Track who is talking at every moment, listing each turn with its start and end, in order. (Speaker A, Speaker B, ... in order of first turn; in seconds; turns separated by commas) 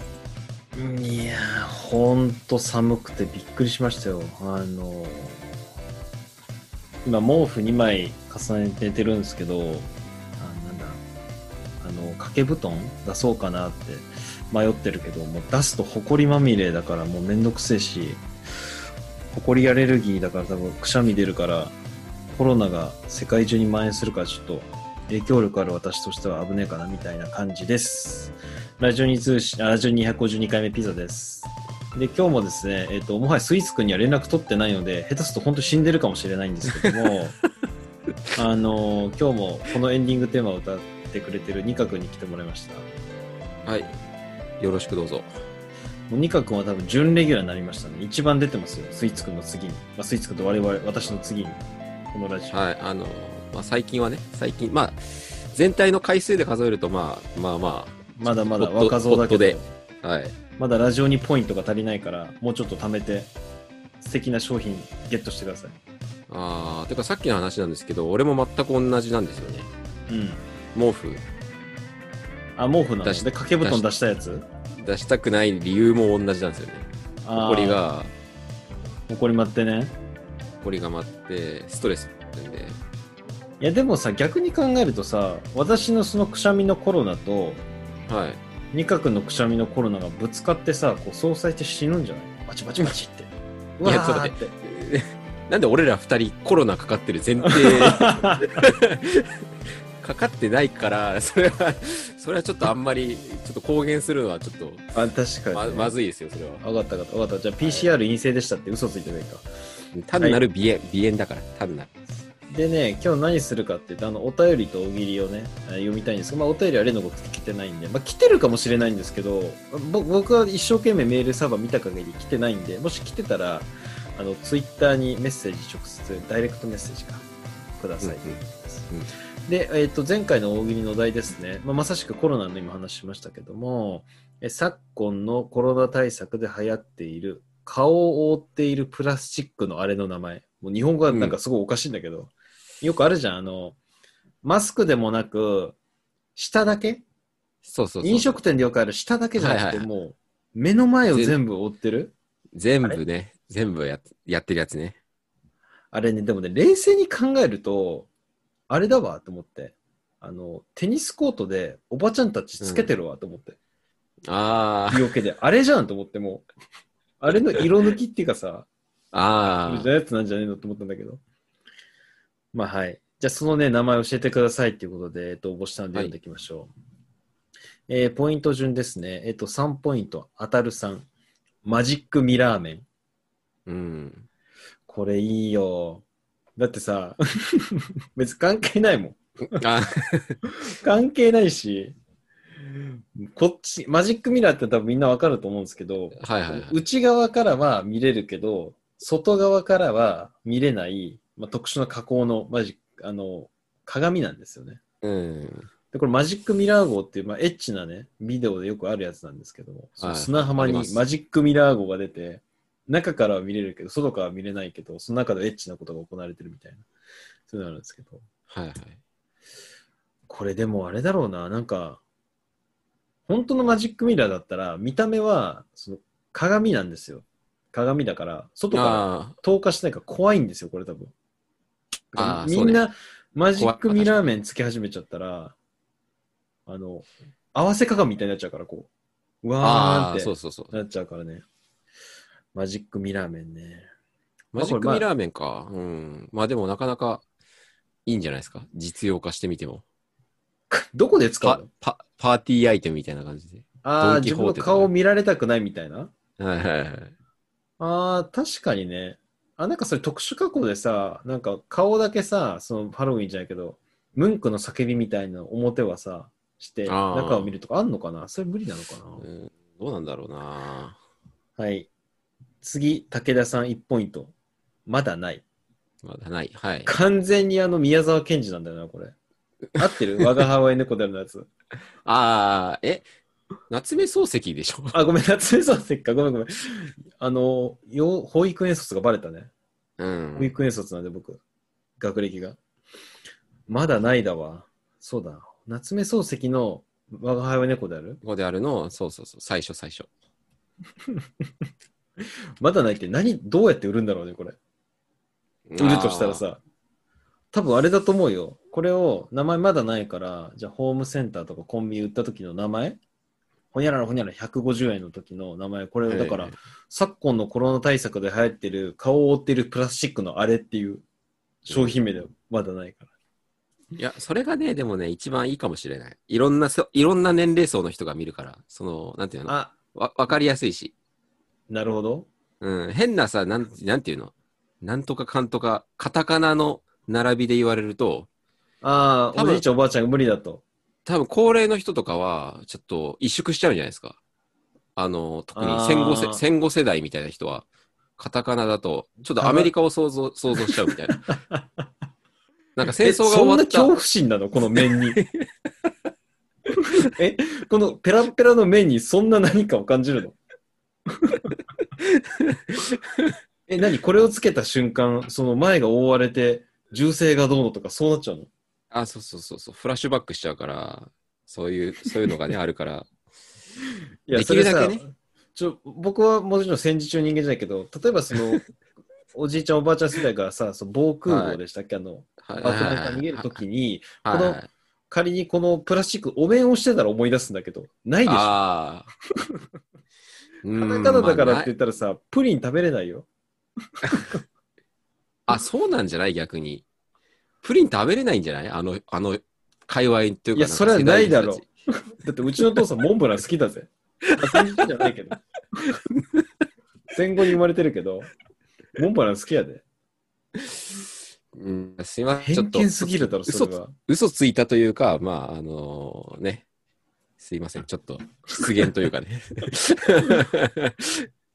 Speaker A: 0.7-5.4, Speaker A: 7.0-11.0, Speaker A: 11.8-18.2, Speaker A: 19.3-21.8, Speaker A: 22.3-37.4, Speaker B: 36.8-37.5, Speaker A: 38.4-42.9, Speaker B: 43.6-43.9, Speaker B: 44.6-45.3, Speaker A: 46.1-52.5, Speaker B: 52.5-60.4, Speaker A: 58.2-59.7, Speaker A: 60.6-63.3, Speaker A: 64.0-65.8, Speaker B: 66.3-69.7, Speaker A: 70.1-70.4, Speaker B: 70.7-71.2, Speaker A: 72.6-74.5, Speaker B: 73.0-73.8, Speaker B: 74.8-76.9, Speaker A: 77.2-77.8, Speaker B: 77.4-78.1, Speaker A: 79.1-79.9, Speaker B: 80.6-82.8, Speaker A: 83.6-87.6, Speaker B: 88.1-88.4, Speaker A: 88.7-94.5, Speaker B: 93.8-99.4, Speaker A: 97.4-98.6, Speaker B: 100.0-104.8, Speaker A: 104.9-105.9, Speaker B: 105.5-106.6, Speaker A: 106.6-109.5, Speaker B: 107.6-107.9, Speaker B: 109.9-111.9, Speaker A: 112.5-127.2, Speaker A: 127.8-128.9, Speaker B: 128.0-129.1, Speaker A: 129.5-143.8, Speaker B: 141.1-141.4, Speaker A: 144.4-145.8, Speaker A: 146.4-147.0, Speaker B: 147.6-148.4, Speaker A: 148.0-152.1, Speaker B: 149.4-149.9, Speaker B: 151.1-151.4, Speaker B: 152.6-155.0, Speaker A: 155.9-158.1, Speaker A: 158.7-163.6, Speaker B: 162.6-162.9, Speaker B: 164.3-165.1, Speaker A: 164.9-166.4, Speaker A: 167.2-168.7, Speaker B: 169.1-169.9, Speaker A: 169.7-171.2, Speaker A: 172.5-176.7, Speaker A: 177.9-181.1, Speaker A: 181.7-182.8, Speaker B: 183.7-184.3, Speaker A: 184.9-186.0, Speaker A: 186.6-189.6, Speaker B: 189.5-190.4, Speaker A: 190.5-191.9, Speaker A: 193.2-204.8, Speaker B: 196.2-196.8, Speaker B: 205.0-205.7, Speaker A: 205.9-216.8, Speaker B: 210.0-211.0, Speaker A: 217.5-218.2, Speaker B: 218.5-219.0, Speaker A: 220.3-222.0, Speaker A: 223.3-231.1, Speaker B: 228.7-229.4, Speaker A: 232.1-235.6, Speaker B: 232.2-232.9, Speaker B: 233.6-234.2, Speaker A: 236.7-238.9, Speaker A: 239.4-241.4, Speaker B: 239.6-240.7, Speaker A: 242.5-243.9, Speaker B: 244.5-247.2, Speaker A: 244.6-245.1, Speaker B: 248.1-249.8, Speaker A: 250.7-251.7, Speaker B: 251.4-254.9, Speaker A: 253.8-256.1, Speaker B: 256.4-257.1, Speaker A: 257.8-269.2, Speaker B: 266.9-267.5, Speaker B: 269.2-271.0, Speaker A: 271.6-271.9, Speaker A: 272.6-274.3, Speaker A: 274.9-275.4, Speaker B: 276.0-276.9, Speaker A: 276.9-279.1, Speaker A: 279.8-281.5, Speaker B: 282.1-283.1, Speaker B: 283.7-285.0, Speaker A: 284.9-289.5, Speaker B: 290.0-290.5, Speaker A: 290.4-291.4, Speaker A: 292.0-292.6, Speaker A: 293.7-298.2, Speaker B: 298.2-300.1, Speaker A: 302.6-304.6, Speaker B: 305.7-306.4, Speaker A: 305.8-306.6, Speaker A: 307.5-313.0, Speaker A: 313.7-321.0, Speaker B: 316.1-316.6, Speaker A: 321.6-323.1, Speaker B: 321.7-322.0, Speaker B: 324.0-330.9, Speaker A: 329.5-329.7, Speaker A: 331.7-332.3, Speaker B: 332.6-338.3, Speaker A: 338.8-340.6, Speaker B: 339.3-339.6, Speaker B: 341.1-344.2, Speaker B: 344.9-347.7, Speaker A: 345.6-346.4, Speaker B: 348.2-351.2, Speaker A: 349.4-349.7, Speaker A: 350.7-351.6, Speaker B: 352.8-353.9, Speaker A: 352.9-355.2, Speaker B: 354.7-355.5, Speaker A: 356.8-360.4, Speaker A: 361.1-361.5, Speaker B: 362.0-363.4, Speaker A: 363.7-368.5, Speaker B: 368.9-373.1, Speaker A: 374.3-378.7, Speaker B: 374.3-375.0, Speaker A: 379.3-388.6, Speaker B: 381.3-381.6, Speaker B: 382.4-383.6, Speaker B: 384.2-384.7, Speaker B: 388.2-389.1, Speaker B: 390.6-391.7, Speaker A: 390.7-393.3, Speaker A: 394.1-394.4, Speaker B: 395.5-396.9, Speaker B: 397.6-401.6, Speaker A: 400.6-405.4, Speaker B: 404.5-404.8, Speaker B: 406.1-406.4, Speaker A: 407.1-408.3, Speaker A: 408.9-409.8, Speaker B: 411.5-416.6, Speaker A: 412.4-413.9, Speaker B: 417.4-421.3